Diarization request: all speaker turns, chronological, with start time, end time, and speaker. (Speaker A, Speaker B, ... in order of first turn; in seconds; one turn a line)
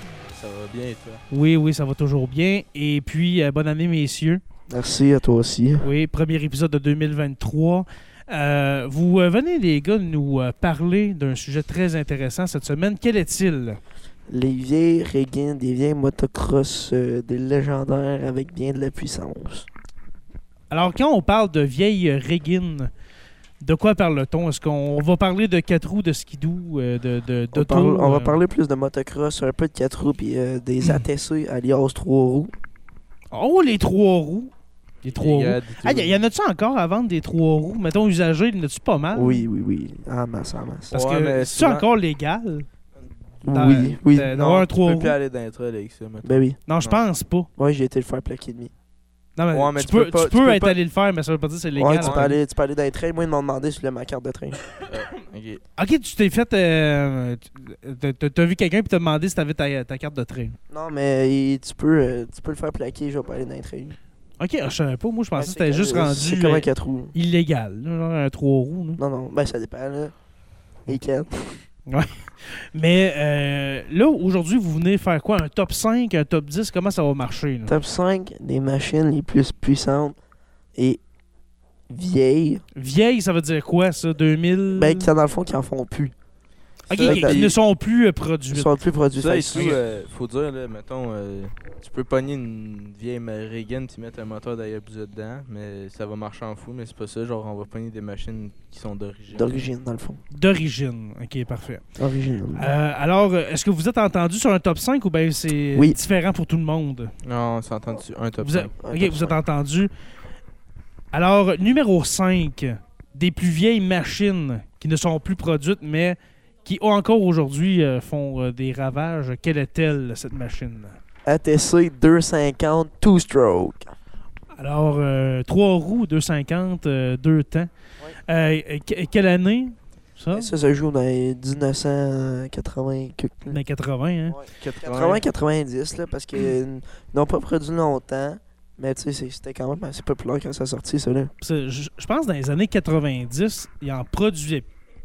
Speaker A: 0.3-1.2
Speaker B: 1.3-4.4
Speaker C: 4.7-5.8
Speaker B: 5.8-13.8
Speaker C: 14.3-19.7
Speaker B: 20.7-22.9
Speaker B: 23.6-28.4
Speaker C: 27.5-32.5
Speaker B: 33.3-34.5
Speaker A: 35.0-36.2
Speaker B: 35.0-39.4
Speaker C: 39.1-40.9
Speaker A: 40.9-41.9
Speaker B: 40.9-42.7
Speaker C: 43.4-44.4
Speaker B: 43.5-45.1
Speaker A: 44.4-47.0
Speaker C: 46.2-46.6
Speaker B: 46.7-47.5
Speaker C: 47.6-48.7
Speaker B: 49.4-52.3
Speaker A: 49.5-50.8
Speaker C: 51.8-54.6
Speaker A: 52.0-52.3
Speaker A: 54.8-55.6
Speaker B: 55.8-60.6
Speaker C: 60.7-64.0
Speaker B: 64.4-69.0
Speaker C: 65.3-67.1
Speaker C: 69.0-70.1
Speaker C: 70.9-71.6
Speaker B: 71.9-77.7
Speaker C: 77.7-80.2
Speaker C: 80.7-81.0
Speaker C: 81.9-82.6
Speaker B: 82.7-85.1
Speaker C: 84.7-86.1
Speaker B: 86.9-88.7
Speaker A: 86.9-87.5
Speaker C: 87.0-87.5
Speaker C: 88.5-89.8
Speaker A: 89.2-99.7
Speaker C: 99.3-100.2
Speaker B: 100.3-101.8
Speaker C: 102.0-102.7
Speaker B: 102.5-107.1
Speaker A: 107.2-108.7
Speaker B: 108.4-109.9
Speaker C: 108.8-109.4
Speaker B: 111.1-121.0
Speaker C: 121.2-123.9
Speaker B: 124.6-127.7
Speaker B: 128.2-130.5
Speaker C: 130.3-133.6
Speaker B: 133.5-134.4
Speaker C: 134.3-141.3
Speaker A: 134.6-135.2
Speaker B: 141.4-144.7